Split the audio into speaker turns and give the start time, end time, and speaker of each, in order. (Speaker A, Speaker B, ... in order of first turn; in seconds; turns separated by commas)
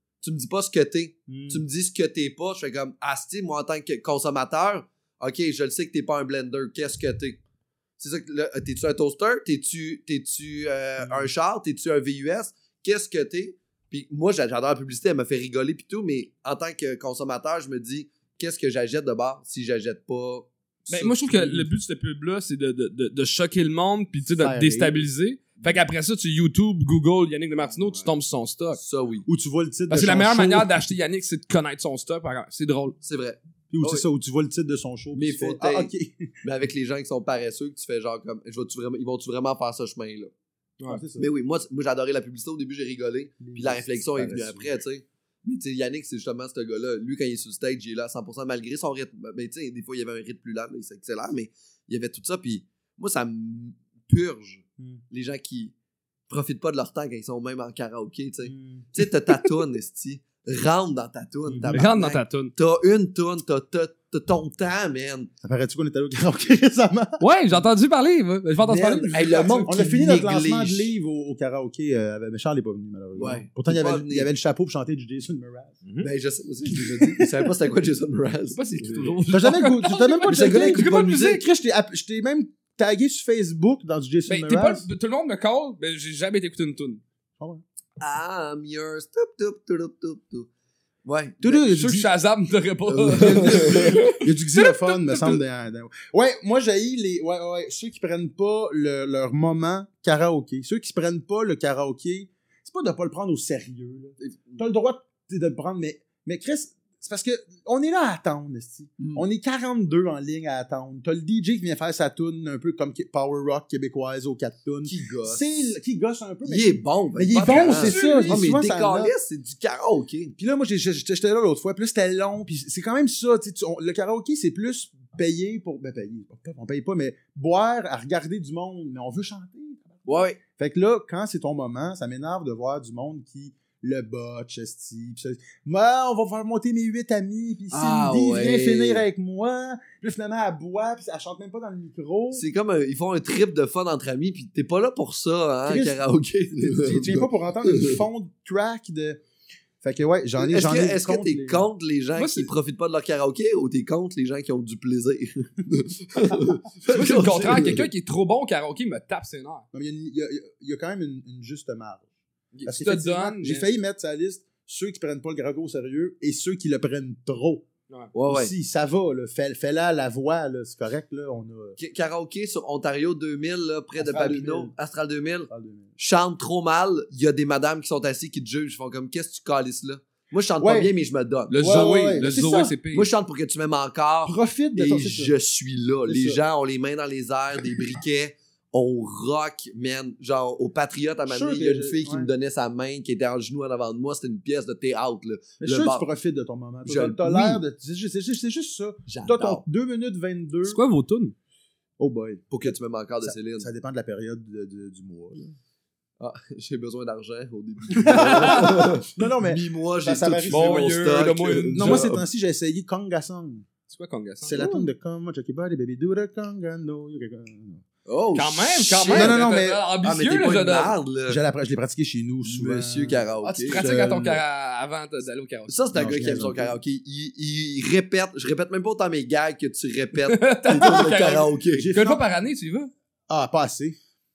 Speaker A: 0.2-7.4, Speaker B: 1.3-1.6, Speaker A: 8.0-21.1, Speaker B: 11.0-11.3, Speaker C: 20.9-28.8, Speaker B: 21.0-21.7, Speaker B: 24.3-25.1, Speaker A: 27.7-28.1, Speaker A: 28.8-29.3, Speaker B: 29.2-30.7, Speaker C: 29.9-33.0, Speaker A: 33.0-34.0, Speaker B: 33.7-36.3, Speaker A: 35.1-35.9, Speaker A: 36.4-40.3, Speaker B: 40.9-41.3, Speaker A: 41.2-55.7, Speaker B: 43.4-44.7, Speaker A: 56.3-65.3, Speaker B: 58.4-58.9, Speaker B: 61.5-61.9, Speaker C: 61.7-62.5, Speaker B: 65.4-67.6, Speaker C: 67.2-69.7, Speaker B: 68.6-75.8, Speaker A: 69.1-70.9, Speaker A: 73.2-74.3, Speaker A: 76.0-79.2, Speaker B: 76.7-77.5, Speaker C: 78.5-81.4, Speaker B: 79.3-84.9, Speaker A: 80.2-81.4, Speaker C: 84.3-87.0, Speaker B: 87.4-87.6, Speaker A: 88.0-90.5, Speaker A: 91.0-91.6, Speaker B: 91.4-92.1, Speaker C: 91.6-95.4, Speaker A: 92.9-93.9, Speaker B: 93.1-119.1, Speaker A: 104.2-104.6, Speaker A: 109.0-109.2, Speaker A: 114.8-115.4, Speaker A: 116.4-120.3, Speaker C: 117.4-118.9, Speaker B: 120.4-142.4, Speaker A: 130.1-130.4, Speaker A: 137.7-139.0, Speaker A: 142.3-148.0, Speaker B: 145.7-149.2, Speaker B: 149.8-151.6, Speaker A: 150.4-157.9, Speaker C: 152.2-152.5, Speaker C: 156.9-159.6, Speaker B: 157.3-157.8, Speaker B: 159.7-162.1, Speaker C: 162.5-163.7, Speaker B: 162.6-167.7, Speaker A: 168.1-168.5, Speaker B: 168.3-171.8, Speaker A: 171.8-182.3, Speaker B: 174.0-174.7, Speaker B: 175.5-175.9, Speaker B: 180.6-180.9, Speaker C: 181.5-183.1, Speaker B: 181.6-182.7, Speaker A: 182.9-196.1, Speaker B: 184.2-185.3, Speaker B: 186.1-186.4, Speaker B: 191.2-192.3, Speaker B: 195.6-200.8, Speaker A: 196.8-197.6, Speaker A: 199.1-199.6, Speaker C: 200.6-201.3, Speaker B: 202.0-205.5, Speaker A: 202.5-203.7, Speaker A: 206.2-212.2, Speaker B: 207.9-210.9, Speaker C: 208.1-208.8, Speaker C: 210.5-212.2, Speaker B: 211.7-213.7, Speaker C: 213.9-214.9, Speaker B: 214.4-217.8, Speaker A: 218.1-219.4, Speaker C: 218.3-221.0, Speaker B: 219.1-219.8, Speaker A: 220.0-221.4, Speaker B: 221.3-224.4, Speaker A: 222.4-223.8, Speaker C: 223.4-225.8, Speaker A: 225.7-231.9, Speaker B: 225.9-226.8, Speaker C: 230.2-232.9, Speaker B: 230.7-232.2, Speaker B: 233.3-234.0